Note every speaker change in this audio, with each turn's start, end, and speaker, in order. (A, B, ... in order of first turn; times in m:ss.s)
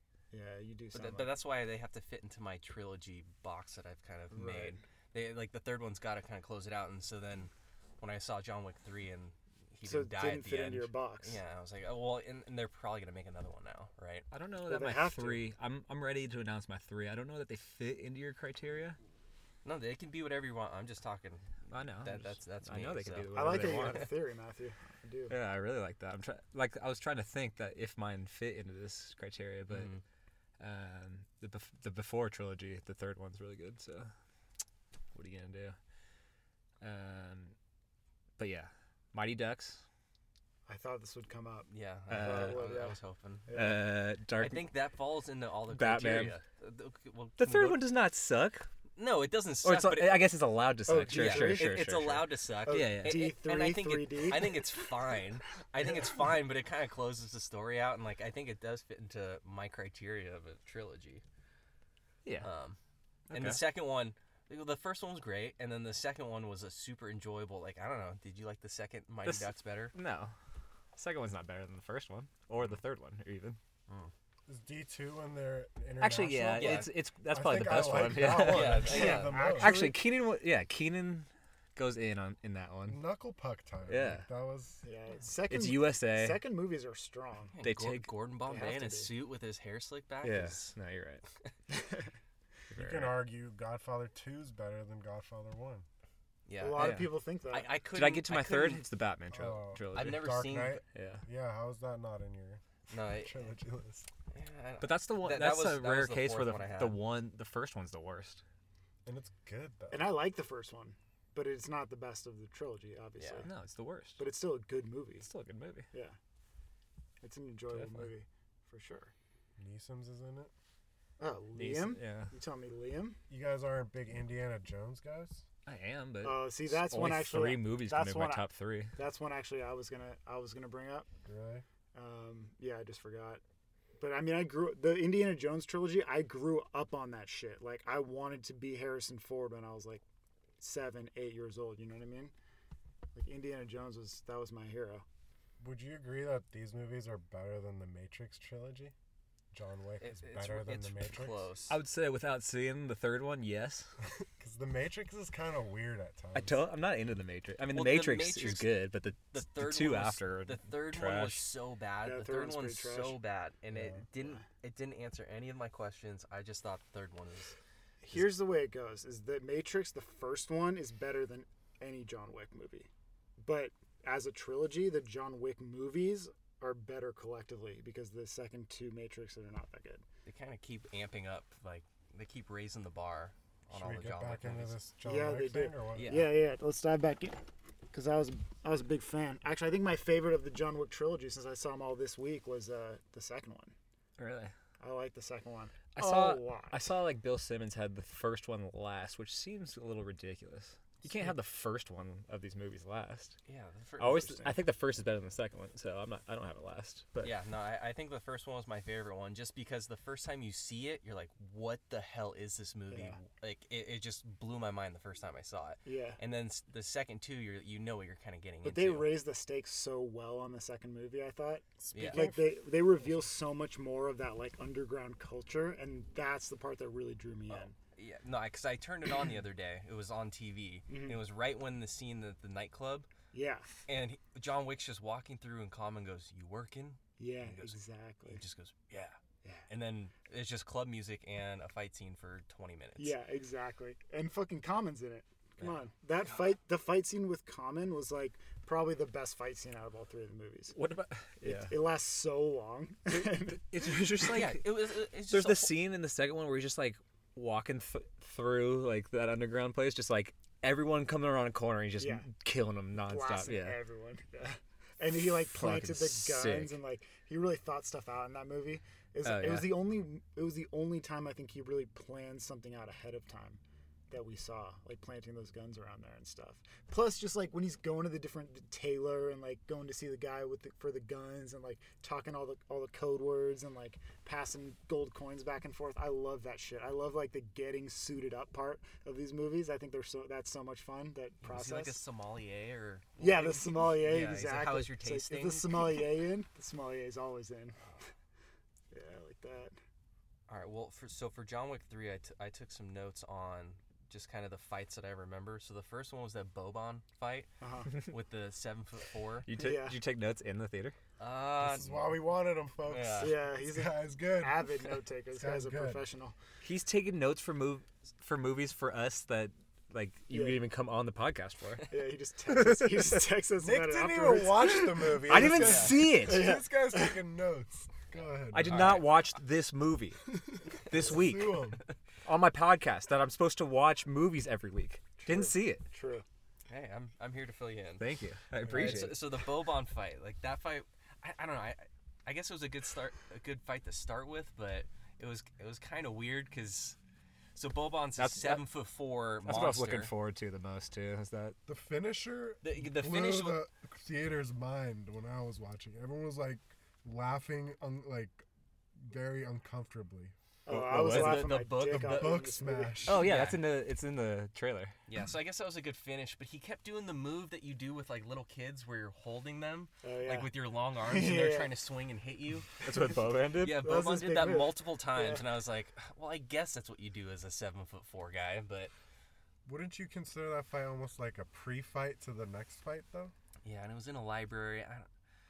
0:00.3-0:01.4 A
0:00.9-0:14.3 B
0:04.3-0:04.8 A
0:09.8-0:11.4 A
0:14.3-0:19.0 C
0:14.6-0:15.5 A
0:19.6-0:24.0 B
0:21.7-0:24.1 C
0:23.3-0:25.3 A
0:25.3-0:29.9 C
0:29.7-0:30.0 B
0:30.6-0:34.1 C
0:35.1-0:35.8 C
0:36.8-0:37.6 C
0:38.4-0:39.8 C
0:40.7-0:43.8 A
0:41.7-0:43.5 B
0:42.1-0:42.9 C
0:43.5-0:44.7 C
0:44.4-0:47.8 B
0:45.7-0:46.4 C
0:47.4-0:48.7 C
0:49.0-0:50.3 B
0:49.6-0:53.3 C
0:50.9-0:51.9 A
0:51.1-1:01.2 B
0:52.6-0:54.8 A
1:02.4-1:02.8 B
1:03.3-1:03.7 C
1:03.3-1:10.0 B
1:09.3-1:10.3 C
1:11.0-1:13.6 C
1:14.5-1:19.9 D
1:16.0-1:23.0 C
1:16.6-1:16.9 B
1:18.2-1:19.4 B
1:18.8-1:20.0 A
1:22.9-1:24.8 D
1:23.9-1:24.3 C
1:24.8-1:27.6 A
1:25.5-1:26.4 C
1:27.5-1:30.8 B
1:27.6-1:28.1 C
1:28.5-1:29.1 A
1:30.2-1:31.2 C
1:31.7-1:32.1 A
1:32.7-1:33.2 C
1:32.7-1:35.9 D
1:36.5-1:38.8 B
1:36.6-1:37.8 A
1:36.8-1:37.2 C
1:37.9-1:41.2 C
1:39.3-1:44.1 D
1:39.9-1:40.8 B
1:42.9-1:43.3 B
1:44.3-1:47.0 B
1:44.8-1:48.4 C
1:49.1-1:50.2 D
1:49.9-1:53.5 A
1:53.2-1:53.5 B
1:53.4-1:54.2 C
1:54.2-1:55.3 A
1:55.2-1:55.9 C
1:55.9-1:56.2 A
1:57.2-1:59.1 A
1:57.7-1:58.1 C
1:59.6-2:00.5 D
2:01.2-2:03.2 A
2:01.6-2:02.3 C
2:03.3-2:05.4 D
2:05.7-2:09.0 C
2:06.2-2:11.1 A
2:11.2-2:11.6 D
2:12.0-2:13.4 A
2:14.0-2:20.0 A
2:20.6-2:22.3 A
2:23.2-2:25.0 A
2:25.6-2:28.9 D
2:29.5-2:31.5 D
2:30.0-2:31.8 B
2:31.7-2:33.9 C
2:34.2-2:36.6 D
2:36.4-2:41.4 C
2:37.7-2:38.7 B
2:39.3-2:47.6 B
2:42.0-2:43.2 A
2:43.7-2:44.0 D
2:48.0-3:00.0 A
3:00.2-3:04.8 B
3:03.7-3:06.2 D
3:05.0-3:13.7 A
3:06.0-3:06.3 B
3:14.2-3:14.5 C
3:14.8-3:16.9 A
3:16.0-3:23.4 C
3:23.5-3:24.5 B
3:24.0-3:27.3 C
3:24.1-3:24.6 A
3:27.2-3:39.2 B
3:32.9-3:33.2 A
3:35.8-3:36.2 A
3:38.6-3:47.8 A
3:41.9-3:42.5 B
3:47.5-3:53.1 B
3:50.9-3:51.2 A
3:53.3-3:53.7 A
3:53.9-3:59.2 B
3:57.2-3:58.4 A
3:59.7-4:03.2 B
4:03.0-4:10.8 A
4:10.7-4:11.8 C
4:11.4-4:14.2 A
4:13.6-4:23.8 C
4:14.3-4:15.8 B
4:22.0-4:22.3 A
4:23.0-4:33.6 A
4:25.4-4:26.8 C
4:29.2-4:29.8 C
4:34.1-4:52.0 A
4:51.4-4:56.1 B
4:53.2-4:57.8 A
4:58.9-4:59.8 A
5:00.5-5:09.5 B
5:07.6-5:08.0 A
5:09.4-5:11.0 C
5:09.5-5:10.0 A
5:11.2-5:11.9 B
5:11.6-5:14.7 D
5:12.9-5:13.4 B
5:13.2-5:16.4 A
5:15.3-5:16.0 D
5:16.6-5:22.0 C
5:20.3-5:20.6 A
5:21.9-5:27.2 A
5:22.5-5:23.2 C
5:23.6-5:29.0 D
5:25.2-5:26.6 C
5:25.5-5:26.1 B
5:28.1-5:29.3 B
5:28.5-5:31.7 C
5:30.9-5:31.8 D
5:32.2-5:35.8 C
5:35.2-5:36.2 A
5:36.7-5:38.0 B
5:38.0-5:39.2 C
5:38.6-5:47.0 B
5:47.6-5:50.1 B
5:48.2-5:48.6 C
5:49.4-5:51.6 C
5:51.7-5:58.5 D
5:52.6-5:53.6 B
5:59.0-6:00.3 D
6:00.7-6:03.1 A
6:00.7-6:01.6 C
6:00.9-6:02.4 B
6:01.8-6:03.3 D
6:03.1-6:03.6 B
6:03.1-6:05.0 C
6:05.1-6:12.8 B
6:10.0-6:10.5 A
6:11.0-6:11.7 A
6:12.8-6:14.0 C
6:13.6-6:18.9 B
6:13.7-6:15.4 A
6:19.6-6:23.3 D
6:23.6-6:25.1 B